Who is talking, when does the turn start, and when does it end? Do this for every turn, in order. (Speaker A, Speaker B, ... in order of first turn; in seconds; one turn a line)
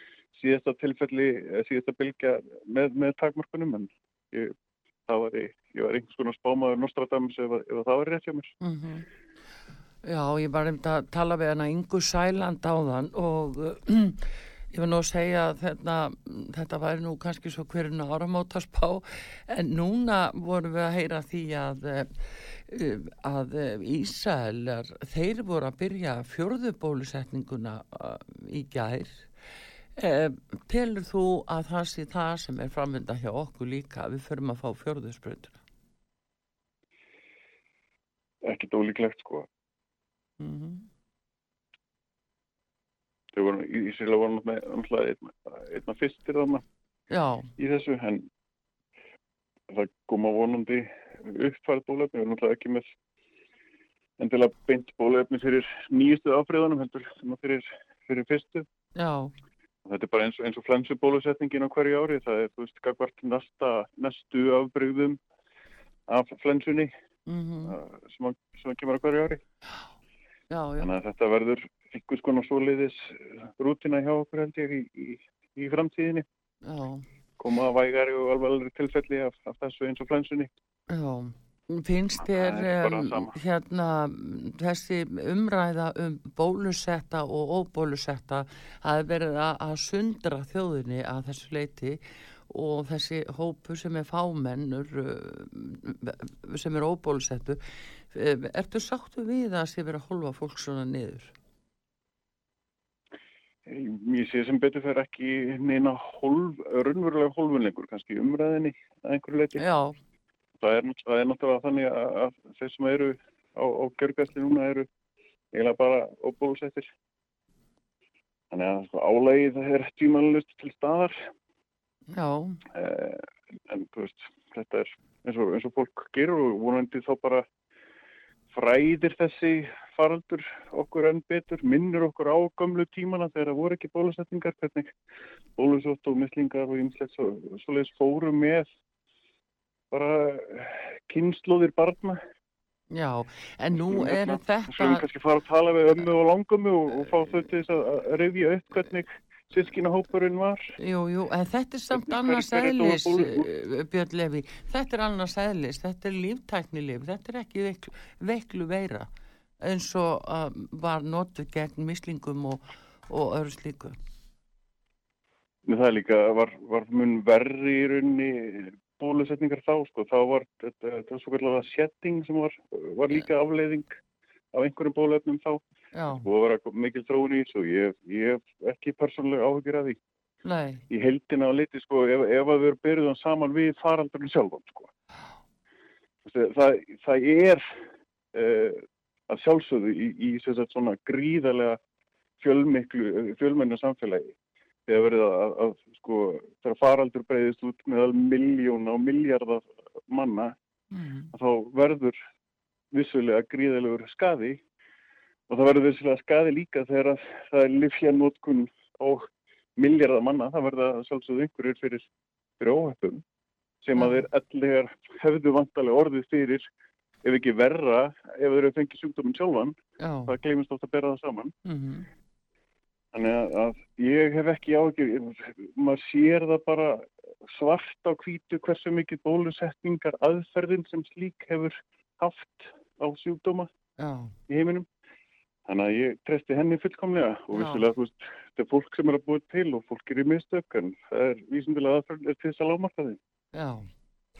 Speaker A: 0.3-4.5
Speaker A: 5.1-8.5
Speaker B: 8.6-9.1
Speaker B: 10.0-29.3
Speaker B: 30.0-35.6
Speaker A: 38.4-39.5
Speaker B: 40.4-40.9
Speaker A: 43.3-46.6
Speaker B: 47.1-47.5
Speaker A: 47.6-48.3
Speaker A: 49.7-52.9
Speaker A: 54.2-58.6
Speaker B: 59.0-59.3
Speaker A: 59.9-65.2
Speaker A: 66.1-66.9
Speaker B: 67.3-67.8
Speaker A: 67.7-69.4
Speaker B: 70.5-70.9
Speaker A: 70.8-76.2
Speaker B: 76.6-77.0
Speaker A: 77.4-80.5
Speaker B: 80.9-97.6
Speaker A: 82.3-83.3
Speaker B: 98.1-101.3
Speaker A: 103.7-109.6
Speaker B: 109.6-109.9
Speaker A: 110.6-114.9
Speaker A: 115.5-116.9
Speaker A: 118.5-121.2
Speaker B: 122.1-122.6
Speaker A: 122.7-127.4
Speaker A: 128.5-134.9
Speaker A: 135.6-138.7
Speaker A: 139.9-142.2
Speaker B: 142.9-145.0
Speaker A: 143.8-150.7
Speaker B: 150.8-159.1
Speaker A: 151.9-153.4
Speaker B: 159.6-164.0
Speaker A: 165.6-173.9
Speaker A: 174.5-175.6
Speaker B: 175.9-176.2
Speaker A: 176.1-180.0
Speaker B: 180.4-180.8
Speaker A: 180.9-184.9
Speaker A: 186.2-187.6
Speaker A: 188.3-191.8
Speaker A: 192.4-194.3
Speaker A: 194.9-200.5
Speaker B: 200.9-201.3
Speaker A: 201.3-202.2
Speaker A: 202.9-204.6
Speaker A: 205.5-212.1
Speaker A: 212.6-213.2
Speaker A: 213.8-216.6
Speaker B: 213.9-214.2
Speaker A: 217.2-219.8
Speaker B: 220.0-220.3
Speaker A: 220.3-221.5
Speaker B: 221.6-222.1
Speaker A: 223.1-233.7
Speaker B: 234.0-234.3
Speaker A: 234.5-234.8
Speaker A: 235.7-243.2
Speaker B: 237.5-237.8
Speaker B: 243.5-243.9